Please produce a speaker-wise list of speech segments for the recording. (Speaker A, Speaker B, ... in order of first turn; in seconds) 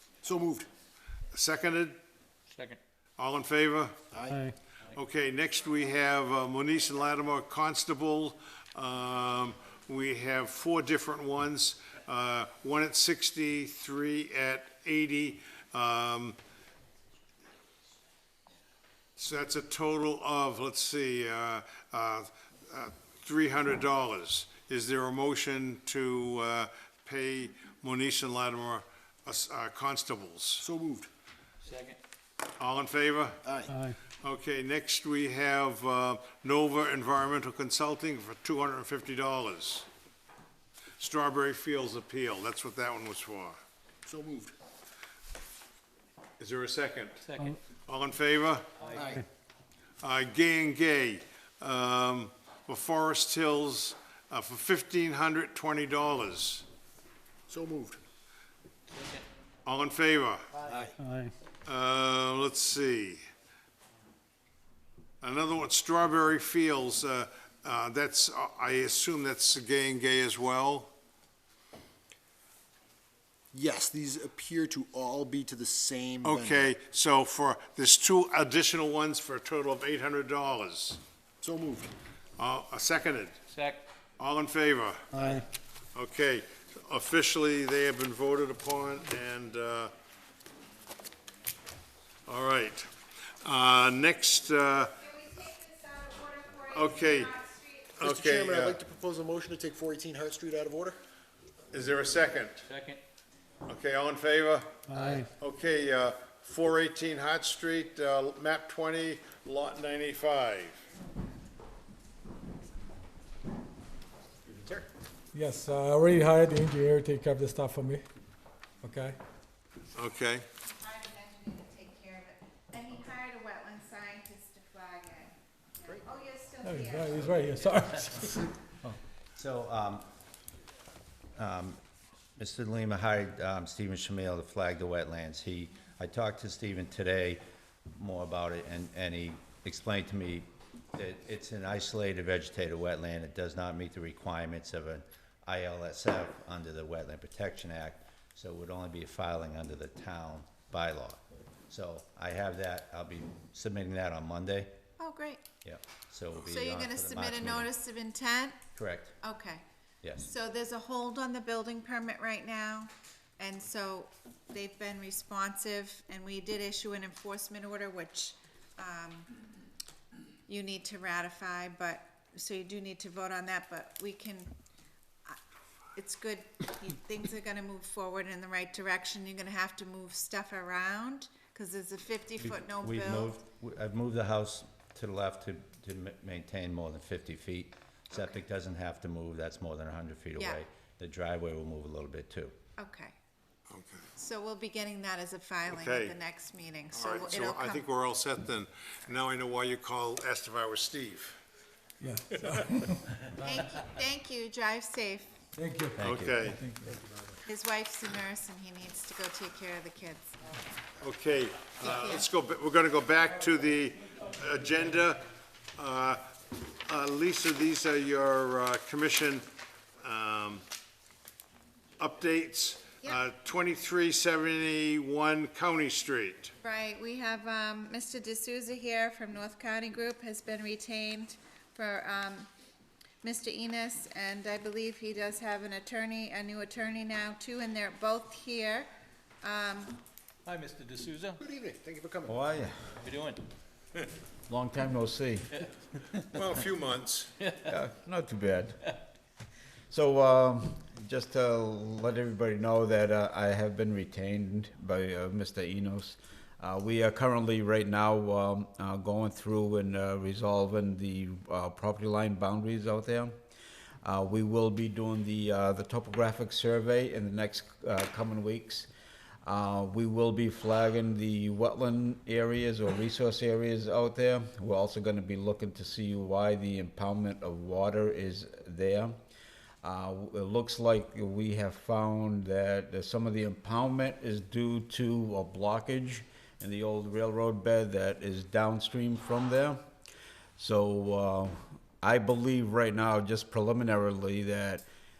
Speaker A: 0.2-0.7, 4.1-4.4, 30.6-31.1, 33.4-33.8, 44.0-44.5, 48.9-49.2, 57.5-58.0, 60.6-61.0, 73.5-76.7, 81.4-81.9, 85.1-85.4, 98.0-101.0, 114.5-114.9, 241.4-242.4
Speaker B: 1.3-2.0, 3.2-4.0, 4.9-16.4, 19.2-30.7, 32.6-33.4, 34.2-39.9, 41.0-43.6, 46.4-47.3, 47.8-48.6, 50.0-56.6, 59.6-60.5, 61.6-63.2, 65.2-70.9, 76.2-81.0, 82.4-83.4, 84.2-85.2, 85.9-89.9, 92.2-95.0, 96.7-97.4, 98.0-98.8, 101.7-102.6, 103.7-110.8, 119.9-120.5, 193.7-194.1, 195.7-196.2, 196.9-201.4, 206.0-206.7, 211.0-215.2, 215.8-216.2, 216.8-219.4, 220.0-220.6, 222.0-226.5, 246.3-247.3
Speaker C: 2.5-2.8, 31.6-32.0, 47.2-47.5, 48.9-49.1, 58.9-59.2, 83.5-83.8, 102.6-103.0, 240.4-241.4, 243.0-243.4
Speaker D: 61.0-61.3, 104.9-105.3, 115.3-118.0, 118.8-119.2, 126.6-128.5, 202.0-203.0, 205.6-207.0
Speaker E: 95.0-98.0, 120.6-127.3, 155.0-155.5, 156.3-158.7, 159.2-159.6, 160.2-169.3, 170.5-174.5, 175.9-183.4, 188.1-188.4, 190.3-190.6, 192.8-193.1, 194.2-197.9, 203.4-205.4, 207.4-210.3, 211.8-212.2, 226.6-232.5, 233.2-238.9, 239.4-240.0
Speaker F: 129.3-130.1, 131.3-131.8, 132.4-154.8, 155.6-157.7, 158.8-159.2, 182.4-192.5, 206.0-206.3, 242.3-242.8
Speaker G: 244.5-245.6, 247.6-248.9, 249.9-263.4, 264.0-268.9, 269.4-279.2, 279.8-289.8, 290.6-294.9